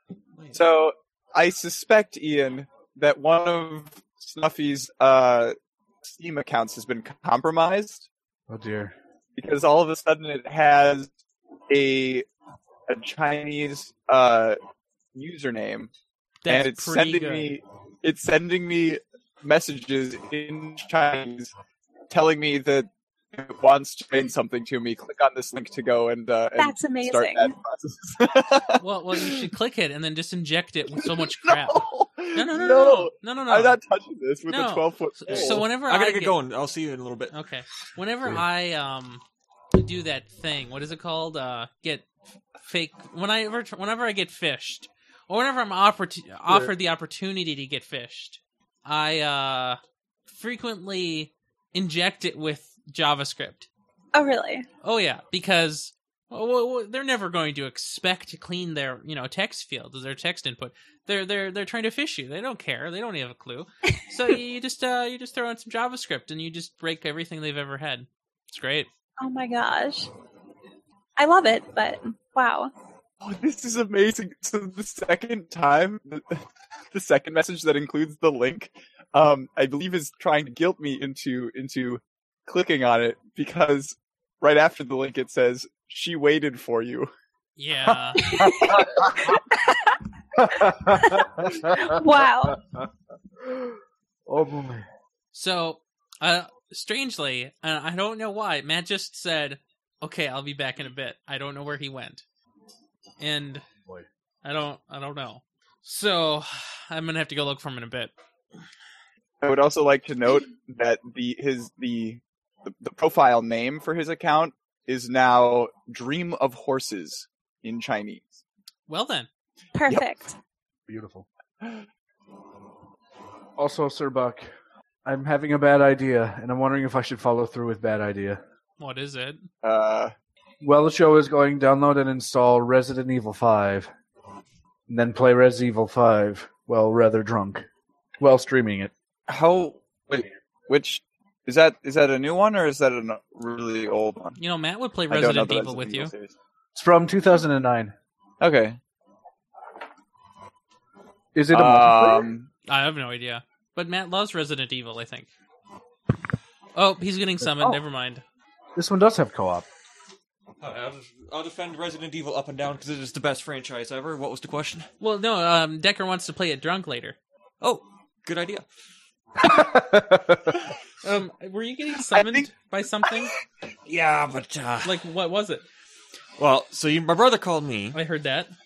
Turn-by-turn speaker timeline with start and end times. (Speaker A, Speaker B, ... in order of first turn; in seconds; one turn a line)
Speaker A: 0.3-0.7
Speaker B: 0.5-8.1
Speaker C: 8.5-8.9
Speaker B: 9.3-11.1
Speaker B: 11.7-12.2
Speaker B: 12.9-14.6
Speaker B: 15.1-15.9
Speaker D: 16.4-17.5
Speaker B: 16.5-21.5
Speaker B: 22.1-29.4
Speaker E: 26.6-27.5
Speaker D: 28.8-31.8
Speaker B: 31.1-35.6
Speaker D: 32.3-33.8
Speaker D: 34.5-36.4
Speaker A: 35.3-37.3
Speaker D: 37.3-39.2
Speaker D: 39.7-42.1
Speaker D: 42.6-53.7
Speaker E: 54.1-54.6
Speaker D: 54.8-68.9
Speaker E: 69.2-70.1
Speaker E: 71.2-72.7
Speaker B: 73.2-76.3
Speaker B: 76.9-87.1
Speaker D: 87.6-88.4
Speaker C: 87.8-89.2
Speaker E: 88.2-92.6
Speaker C: 90.3-92.8
Speaker C: 93.4-94.8
Speaker D: 95.3-102.2
Speaker D: 103.2-103.6
Speaker D: 104.4-108.1
Speaker B: 109.4-118.4
Speaker D: 118.9-119.3
Speaker E: 119.7-120.3
Speaker C: 120.9-121.2
Speaker C: 123.6-124.5
Speaker C: 125.0-128.4
Speaker D: 128.8-129.5
Speaker B: 129.6-130.1
Speaker C: 130.6-133.9
Speaker C: 134.9-137.7
Speaker C: 138.2-138.9
Speaker B: 139.3-144.4
Speaker D: 144.4-146.1
Speaker B: 145.1-146.3
Speaker C: 146.7-147.9
Speaker B: 148.4-148.8
Speaker C: 151.3-152.3
Speaker B: 151.5-152.5
Speaker D: 152.7-155.3
Speaker D: 156.7-158.2
Speaker C: 157.4-157.8
Speaker C: 158.7-159.7
Speaker A: 160.6-164.9
Speaker D: 165.0-167.2
Speaker A: 167.6-168.7
Speaker C: 169.4-170.5
Speaker D: 171.0-173.3
Speaker B: 172.1-172.5
Speaker A: 173.8-175.0
Speaker D: 174.8-175.6
Speaker A: 176.4-178.0
Speaker D: 177.9-178.5